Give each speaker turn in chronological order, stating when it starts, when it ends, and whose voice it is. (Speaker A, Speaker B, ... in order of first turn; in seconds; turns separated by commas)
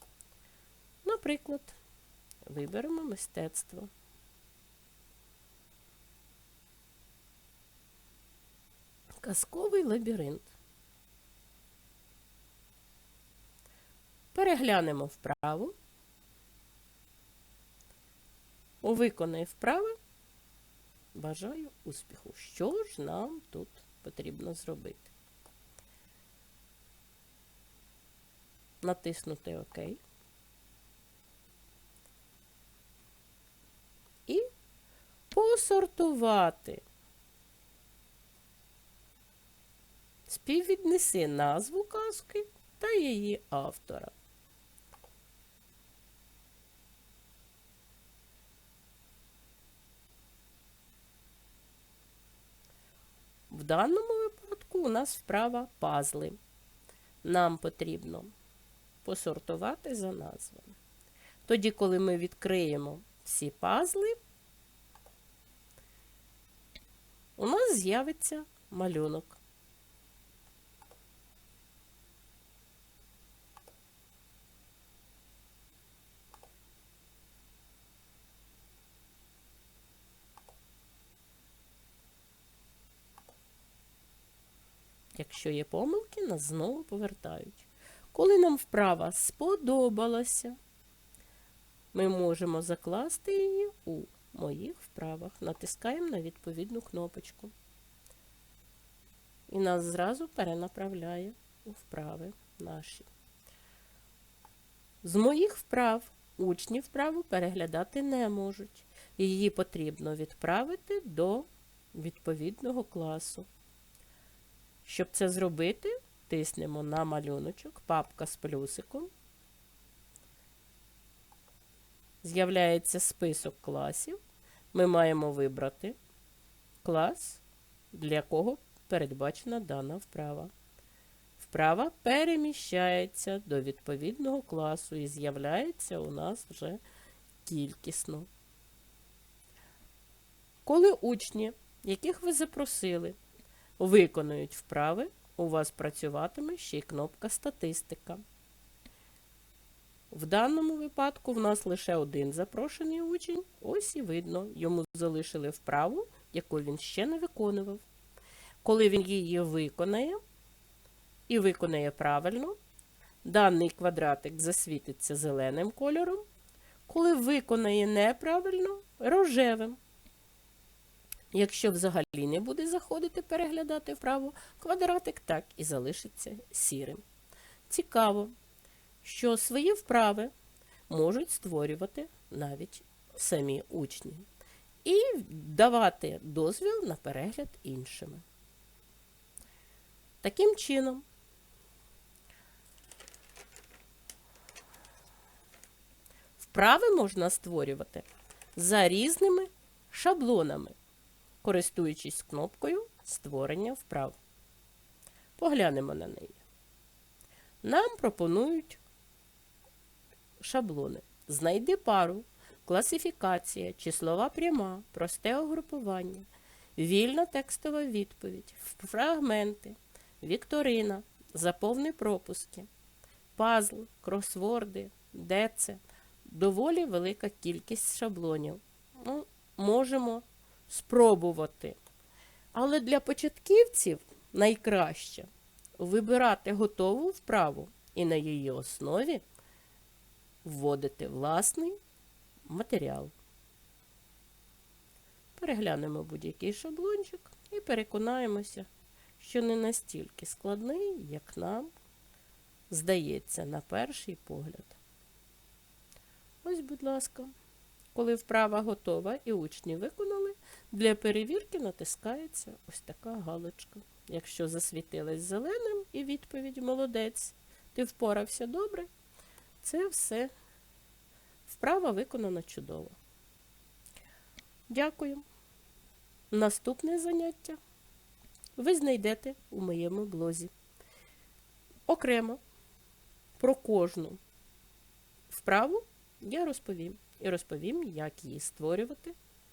Speaker A: 1.0-1.8, Speaker A: 2.4-3.9, Speaker A: 9.2-10.5, Speaker A: 14.3-15.8, Speaker A: 18.8-19.9, Speaker A: 21.1-25.1, Speaker A: 28.8-30.0, Speaker A: 35.3-36.8, Speaker A: 40.3-44.1, Speaker A: 53.5-56.4, Speaker A: 57.2-58.3, Speaker A: 59.0-60.8, Speaker A: 61.5-64.2, Speaker A: 67.4-69.4, Speaker A: 85.2-90.6, Speaker A: 91.9-97.5, Speaker A: 99.5-103.1, Speaker A: 105.0-113.5, Speaker A: 114.8-119.1, Speaker A: 122.2-124.2, Speaker A: 124.7-126.0, Speaker A: 126.8-130.5, Speaker A: 131.4-136.8, Speaker A: 137.4-138.3, Speaker A: 140.7-143.2, Speaker A: 143.8-148.2, Speaker A: 150.1-157.8, Speaker A: 158.6-160.2, Speaker A: 161.3-162.6, Speaker A: 163.2-166.2, Speaker A: 166.9-169.8, Speaker A: 171.3-177.0, Speaker A: 177.7-178.3, Speaker A: 179.0-180.3, Speaker A: 180.9-184.3, Speaker A: 184.8-188.2, Speaker A: 190.2-191.0, Speaker A: 196.4-200.8, Speaker A: 201.4-204.2, Speaker A: 205.4-206.4, Speaker A: 207.6-208.8, Speaker A: 210.4-222.7, Speaker A: 223.3-231.8, Speaker A: 232.5-239.2, Speaker A: 240.4-241.8, Speaker A: 242.5-243.1, Speaker A: 245.4-251.7, Speaker A: 252.7-254.8, Speaker A: 256.4-257.3, Speaker A: 257.9-268.9, Speaker A: 269.6-270.3, Speaker A: 271.4-272.9, Speaker A: 274.7-275.2, Speaker A: 276.3-277.6, Speaker A: 278.6-280.5, Speaker A: 281.9-282.4, Speaker A: 283.4-284.2, Speaker A: 285.3-289.1